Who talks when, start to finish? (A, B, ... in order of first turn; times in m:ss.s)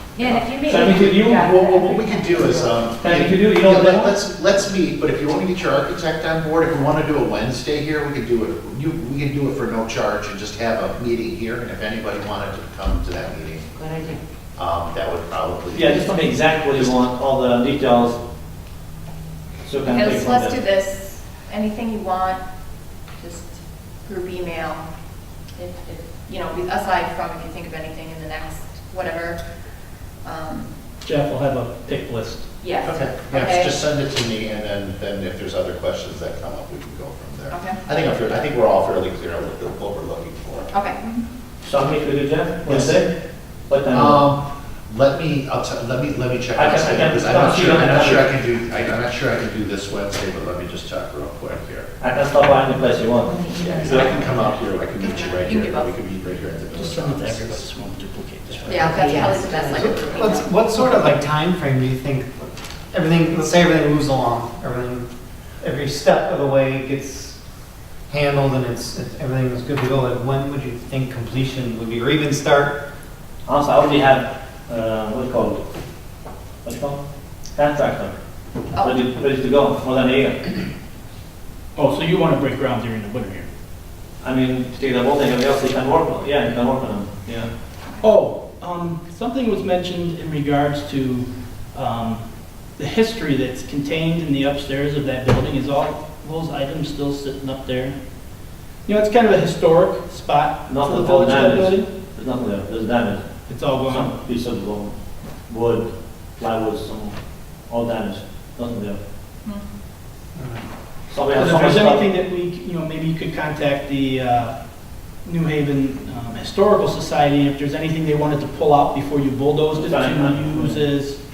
0:00.2-0:02.8 A
0:00.2-0:01.5 B
0:01.3-0:13.7 C
0:03.0-0:04.2 B
0:13.7-0:14.2 A
0:14.6-0:16.2 C
0:15.7-0:18.2 B
0:19.6-0:20.6 B
0:19.8-0:22.4 D
0:23.2-0:24.8 D
0:25.6-0:29.4 D
0:30.2-0:30.7 D
0:31.0-0:32.4 E
0:32.6-0:33.7 D
0:32.8-0:40.7 C
0:37.5-0:37.8 D
0:40.7-0:41.2 D
0:41.6-0:43.1 B
0:42.6-0:43.0 C
0:43.7-0:44.2 B
0:43.9-0:51.9 C
0:46.5-0:48.3 B
0:52.0-0:53.4 B
0:53.2-0:54.5 A
0:53.6-0:57.8 C
0:54.9-0:55.9 D
0:56.7-0:58.9 E
0:58.5-0:59.0 C
0:58.7-1:00.8 D
0:58.8-1:05.1 F
0:58.8-1:00.1 A
1:05.6-1:07.4 F
1:08.1-1:12.8 F
1:13.4-1:15.6 B
1:16.6-1:17.0 B
1:17.6-1:18.2 B
1:18.7-1:19.0 D
1:18.8-1:20.6 B
1:21.7-1:23.5 E
1:24.2-1:27.5 B
1:28.0-1:32.2 E
1:32.8-1:38.0 E
1:38.8-1:41.9 E
1:40.7-1:43.2 B
1:43.5-1:44.1 E
1:43.8-1:44.9 B
1:45.5-1:47.2 B
1:47.7-1:49.0 B
1:50.4-1:50.6 F
1:51.1-1:52.1 B
1:51.3-1:54.5 E
1:55.2-2:01.2 E
1:59.7-2:00.8 B